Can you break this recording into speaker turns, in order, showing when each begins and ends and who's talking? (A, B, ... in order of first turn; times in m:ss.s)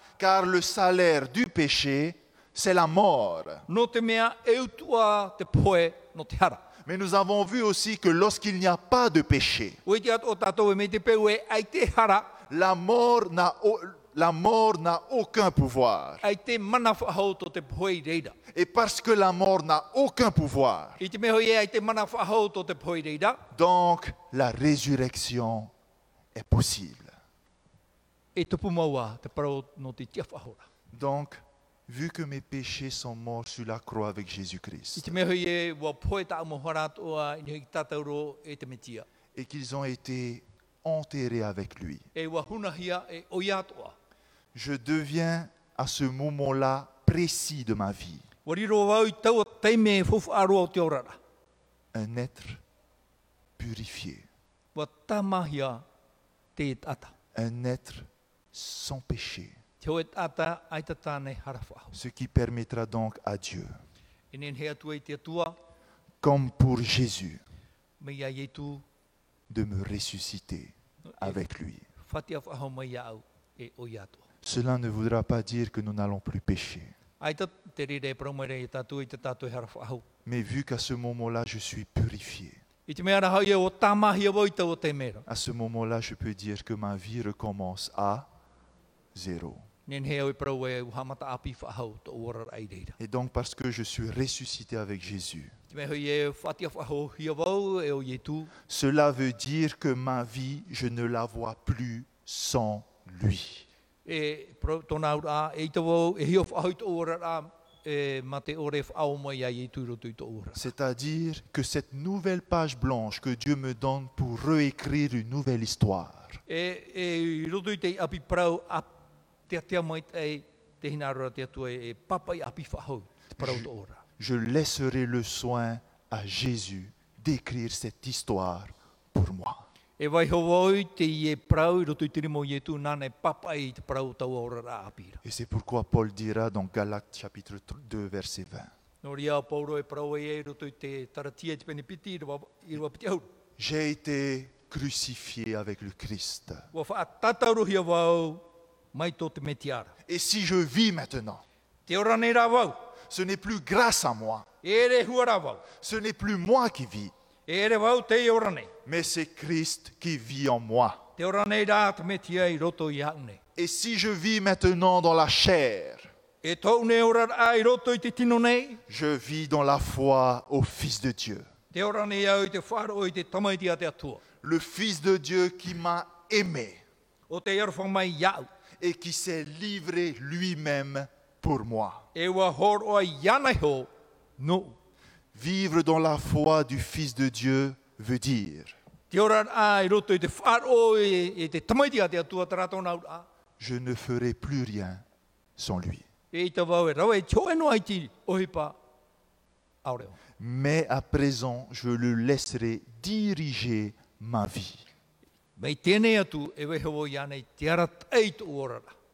0:00.2-0:03.6 A
0:03.7-0:06.6 B
0:06.8-0:09.8 A
0:09.8-0:12.3 B
0:12.5-0:16.2 A
0:16.2-0:18.3 B
0:18.5-0:21.0 A
0:21.0-0:23.4 B
0:23.5-0:25.7 A
0:26.3-0:27.2 A
0:28.3-0:30.6 B
0:30.9-0:35.1 A
0:35.0-0:39.0 B
0:39.3-0:42.0 A
0:42.1-0:43.9 B
0:44.5-0:48.2 A
0:48.4-0:51.2 B
0:51.9-0:52.6 A
0:53.6-0:54.3 A
0:54.7-0:55.8 B
0:56.6-0:57.1 B
0:57.3-0:59.6 A
0:59.8-1:01.9 B
1:01.9-1:03.8 A
1:04.3-1:05.6 B
1:06.2-1:07.4 A
1:08.0-1:08.8 B
1:09.5-1:11.8 A
1:11.1-1:11.4 B
1:12.0-1:14.2 B
1:14.4-1:16.9 A
1:17.2-1:20.0 B
1:20.2-1:22.6 A
1:22.9-1:25.2 B
1:25.3-1:28.3 A
1:29.1-1:29.7 A
1:29.9-1:33.0 B
1:33.0-1:35.5 A
1:35.7-1:38.5 B
1:38.7-1:43.6 A
1:44.0-1:50.6 B
1:50.5-1:56.4 A
1:56.5-1:58.9 B
1:59.5-2:04.0 B
2:03.4-2:09.6 A
2:10.0-2:15.2 B
2:15.2-2:18.7 A
2:19.0-2:23.3 B
2:23.6-2:26.7 A
2:26.7-2:29.9 B
2:30.1-2:31.4 A
2:31.9-2:32.9 B
2:33.1-2:34.5 A
2:34.6-2:35.6 B
2:35.7-2:37.1 A
2:37.5-2:38.7 B
2:38.8-2:41.0 A
2:41.2-2:43.4 B
2:43.6-2:46.1 A
2:46.4-2:48.8 B
2:48.9-2:51.4 A
2:51.7-2:54.2 B
2:54.4-2:56.8 A
2:57.3-2:58.5 B
2:58.8-3:02.0 A
3:02.1-3:04.8 B
3:05.3-3:08.8 A
3:09.1-3:13.3 B
3:13.6-3:15.0 A
3:15.6-3:16.0 A
3:16.3-3:18.8 B
3:19.8-3:20.2 B
3:20.4-3:24.8 A
3:25.6-3:28.9 B